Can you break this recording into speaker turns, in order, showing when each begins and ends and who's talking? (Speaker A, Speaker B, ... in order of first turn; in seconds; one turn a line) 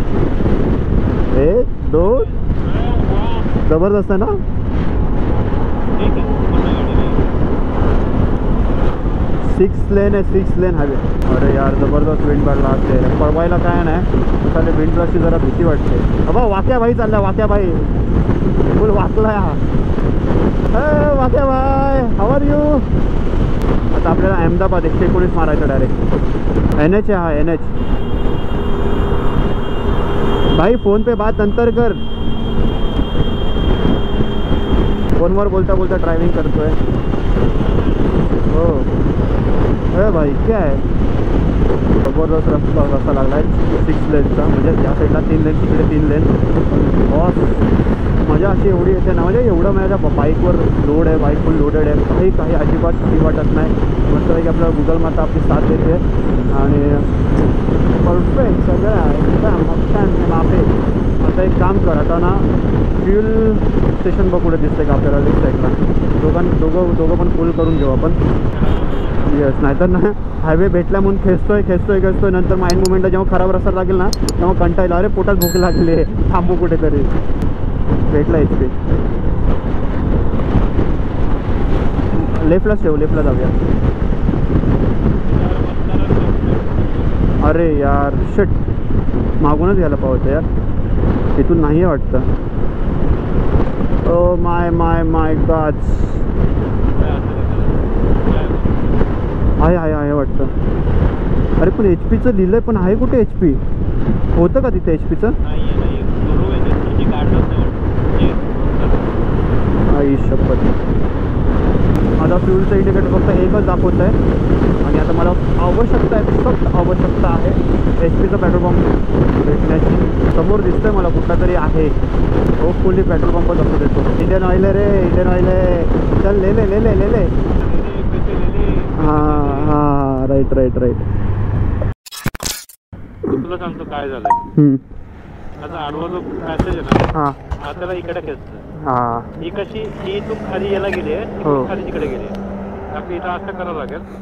Speaker A: 1.3-2.3
Speaker B: 2.4-3.5
Speaker A: 3.6-4.4
Speaker B: 6.0-7.2
Speaker A: 9.4-17.9
Speaker A: 18.7-19.6
Speaker A: 20.7-22.9
Speaker A: 23.9-26.0
Speaker A: 26.8-27.7
Speaker A: 30.5-32.0
Speaker A: 35.1-36.8
Speaker B: 37.3-38.4
Speaker A: 38.5-38.9
Speaker A: 39.9-40.9
Speaker A: 42.0-47.7
Speaker A: 48.2-57.1
Speaker A: 57.9-62.5
Speaker A: 63.0-68.2
Speaker B: 68.5-69.3
Speaker A: 69.2-77.1
Speaker A: 78.1-78.7
Speaker A: 82.1-83.5
Speaker B: 85.3-87.2
Speaker A: 87.4-88.6
Speaker A: 89.4-90.5
Speaker A: 91.3-92.3
Speaker A: 94.0-96.2
Speaker B: 96.9-98.9
Speaker A: 99.6-100.5
Speaker A: 101.6-103.6
Speaker A: 104.3-105.3
Speaker B: 105.4-109.0
Speaker A: 109.9-110.8
Speaker A: 112.2-114.2
Speaker A: 114.8-121.9
Speaker A: 122.6-127.3
Speaker B: 127.6-129.8
Speaker A: 129.0-131.0
Speaker B: 133.3-134.4
Speaker A: 134.5-134.8
Speaker B: 135.6-138.6
Speaker A: 137.1-137.4
Speaker A: 138.8-139.4
Speaker B: 139.4-142.3
Speaker A: 141.4-141.7
Speaker B: 142.9-144.0